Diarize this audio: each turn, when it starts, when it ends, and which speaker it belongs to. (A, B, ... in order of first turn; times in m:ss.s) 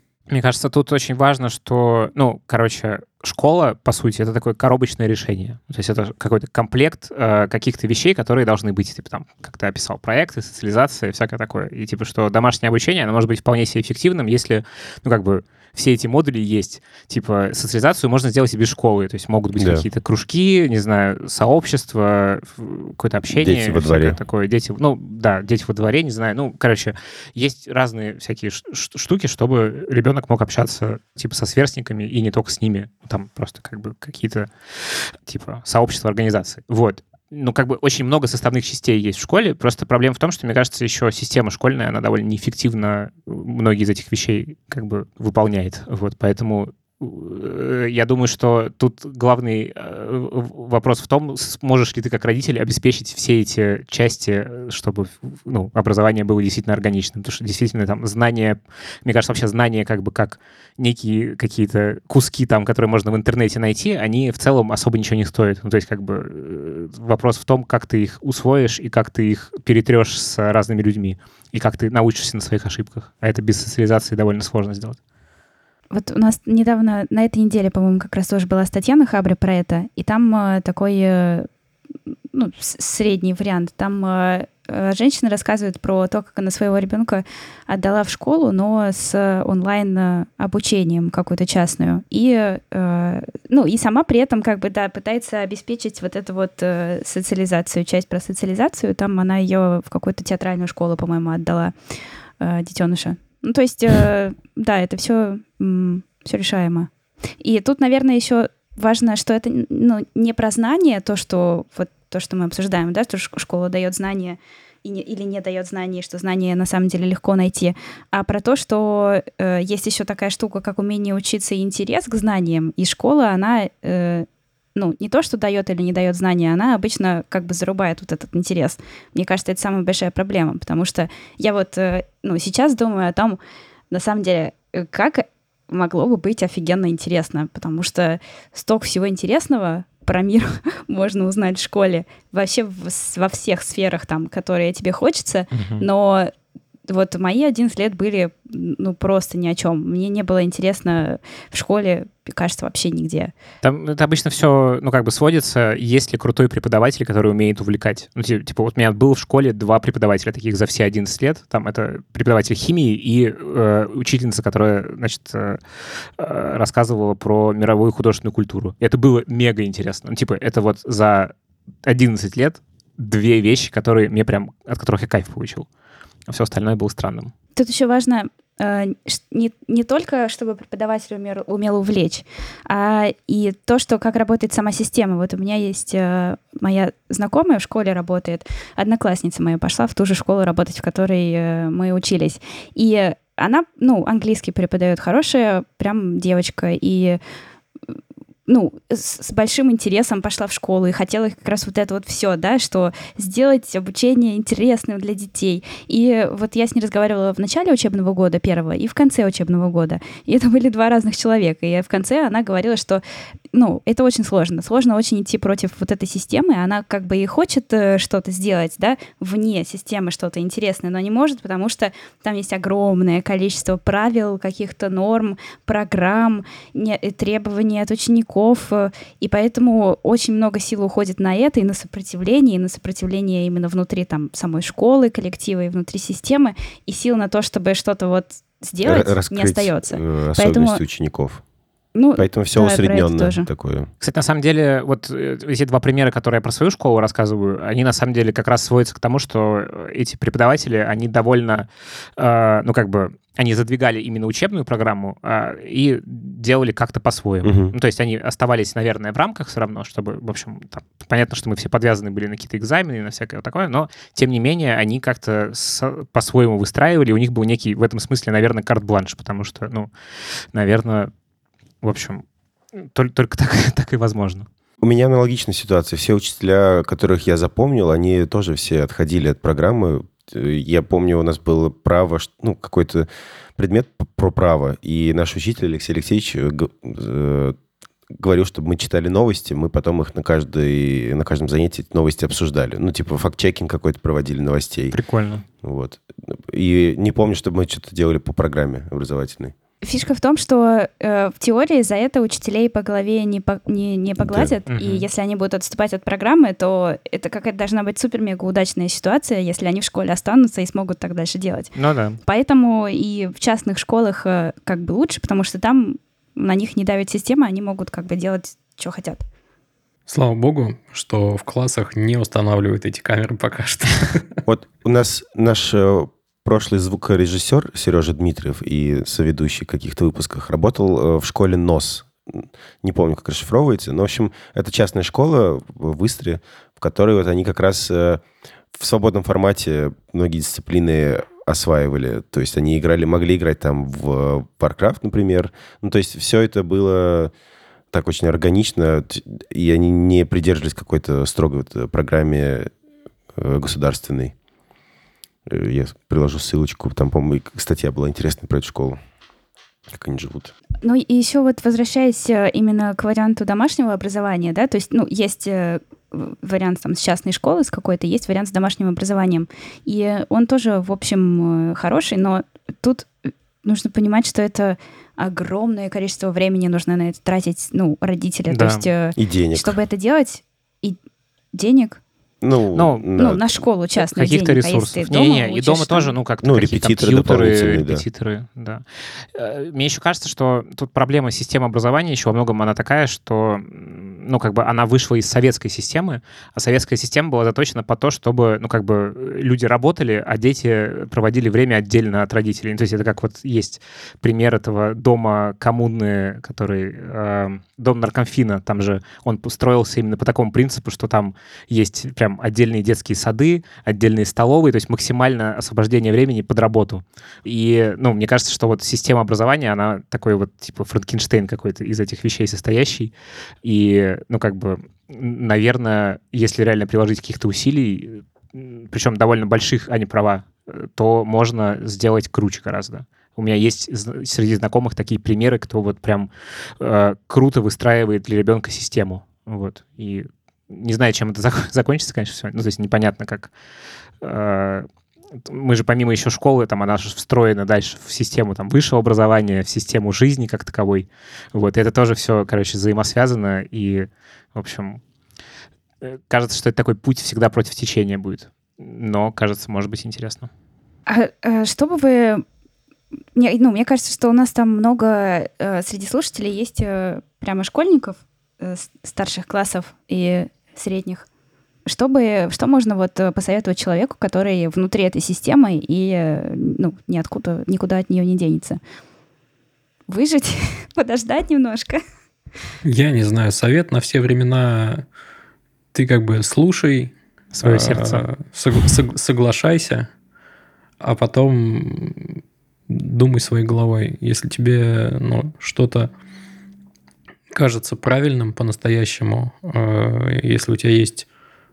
0:00.3-1:15.0 A
0:19.6-0:19.8 B
0:23.4-0:24.2 B
1:15.9-1:21.5 C
1:22.3-1:41.7 C
1:42.4-2:13.4 C
2:13.9-2:26.3 C
2:25.5-2:25.9 A
2:26.9-2:33.3 C
2:33.6-2:45.6 A
2:46.2-2:51.3 A
2:51.8-2:55.7 A
2:56.3-2:57.3 A
2:57.6-3:17.2 C
3:18.5-3:33.0 C
3:33.5-4:00.8 C
3:58.8-4:01.4 B
4:02.0-4:03.5 C
4:02.2-4:03.9 B
4:04.0-4:29.9 A
4:17.4-4:17.7 B
4:30.5-4:31.1 A
4:31.8-4:32.2 A
4:32.8-4:34.5 A
4:34.8-4:47.6 B
4:48.1-4:55.0 B
4:54.9-4:55.4 A
4:55.6-4:59.5 B
4:59.8-5:11.7 C
5:04.2-5:04.5 B
5:04.7-5:05.1 A
5:11.8-5:12.2 A
5:12.2-5:19.2 C
5:20.1-5:24.4 D
5:24.5-5:38.2 B
5:38.7-5:47.3 B
5:47.9-5:52.7 B
5:53.3-5:54.3 B
5:55.5-5:59.0 B
5:59.9-6:00.5 B
6:00.8-6:21.0 C
6:18.5-6:18.9 A
6:19.2-6:19.8 B
6:21.5-6:22.0 C
6:22.4-6:23.4 B
6:22.8-6:23.1 A
6:23.2-6:26.1 C
6:24.0-6:28.8 A
6:26.4-6:28.0 B
6:29.3-7:03.1 A
7:03.6-7:16.3 A
7:16.8-7:23.5 A
7:24.2-7:24.9 A
7:25.5-7:35.0 A
7:36.0-7:40.5 A
7:41.1-7:42.4 C
7:43.4-7:51.3 C
7:51.9-7:58.8 C
8:00.1-8:02.0 C
8:02.8-8:05.0 D
8:05.9-8:10.1 D
8:07.5-8:08.2 A
8:11.0-8:16.1 D
8:17.5-8:21.3 D